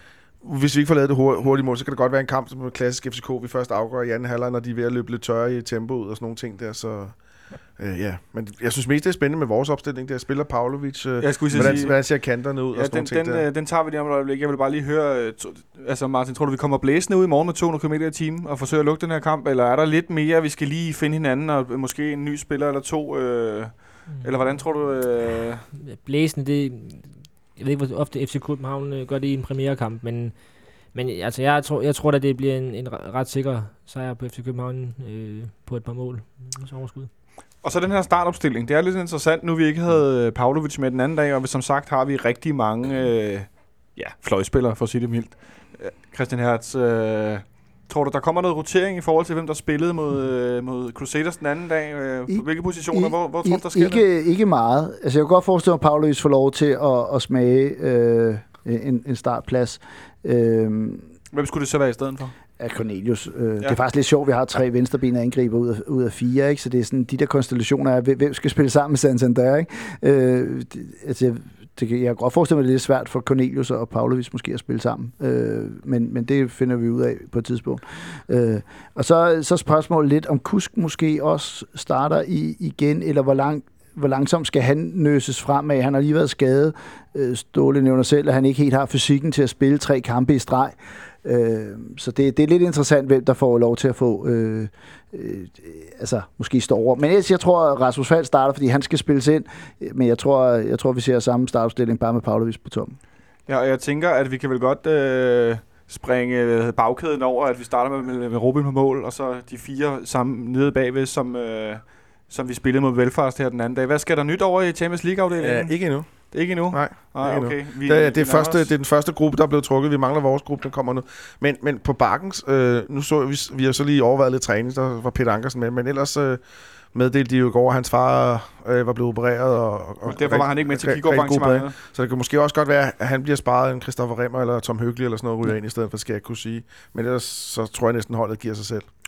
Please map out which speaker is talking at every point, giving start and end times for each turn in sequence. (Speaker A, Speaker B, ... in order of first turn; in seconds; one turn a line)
Speaker A: 0.4-13.4
Speaker B: 11.2-25.7
Speaker C: 24.1-24.6
Speaker C: 25.8-37.1
Speaker B: 37.6-54.0
Speaker D: 52.3-61.1
Speaker B: 61.3-62.3
Speaker D: 62.6-103.0
Speaker B: 103.5-118.7
Speaker A: 115.4-138.9
Speaker B: 130.0-131.8